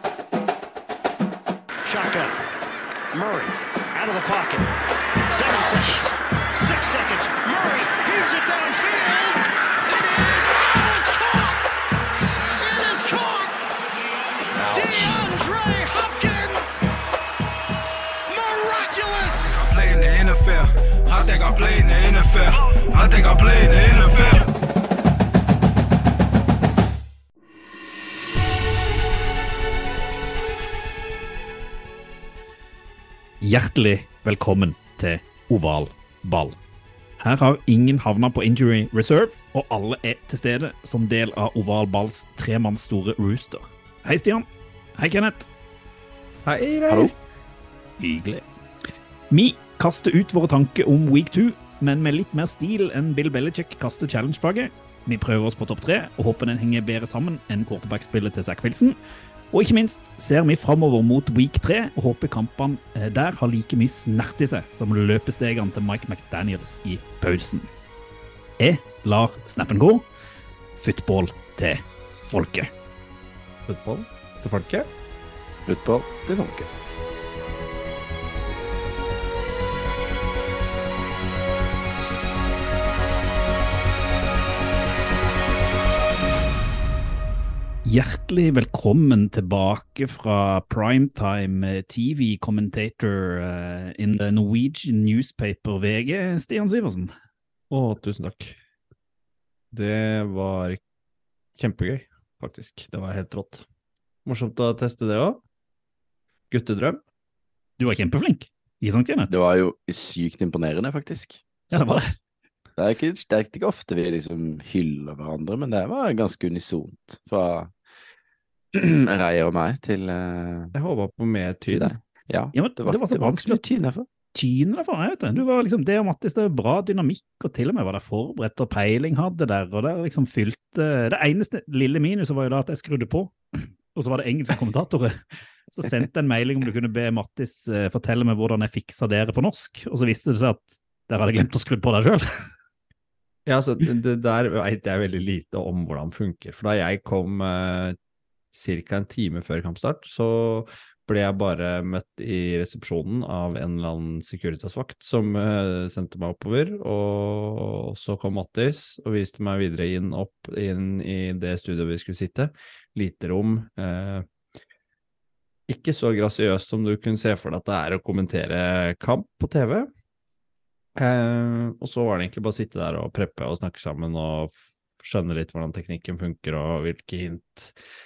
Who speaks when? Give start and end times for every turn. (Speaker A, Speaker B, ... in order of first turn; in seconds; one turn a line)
Speaker A: 1.9-2.5
Speaker A: 3.1-11.7
Speaker A: 12.6-13.6
Speaker A: 14.6-16.9
Speaker B: 14.7-15.1
Speaker A: 18.3-19.6
Speaker B: 19.5-24.5
Speaker C: 33.4-36.6
Speaker C: 37.2-45.5
Speaker D: 46.5-47.1
Speaker C: 48.0-48.5
Speaker C: 49.3-59.0
Speaker C: 59.5-67.7
Speaker C: 68.6-70.0
Speaker C: 70.8-72.7
Speaker D: 73.7-74.9
Speaker E: 75.7-76.7
Speaker C: 87.8-97.1
Speaker D: 97.7-98.6
Speaker D: 99.7-100.8
Speaker D: 101.6-103.7
Speaker D: 104.2-105.4
Speaker D: 106.5-107.0
Speaker C: 107.8-109.3
Speaker E: 109.3-111.5
Speaker C: 111.7-112.1
Speaker D: 111.7-112.0
Speaker E: 112.8-117.7
Speaker E: 118.7-120.7
Speaker D: 120.7-122.0
Speaker E: 121.7-124.1
Speaker C: 122.5-123.6
Speaker C: 124.3-133.4
Speaker C: 133.9-142.5
Speaker D: 143.5-148.0
Speaker D: 148.5-164.3
Speaker D: 165.7-169.9
Speaker D: 171.0-177.8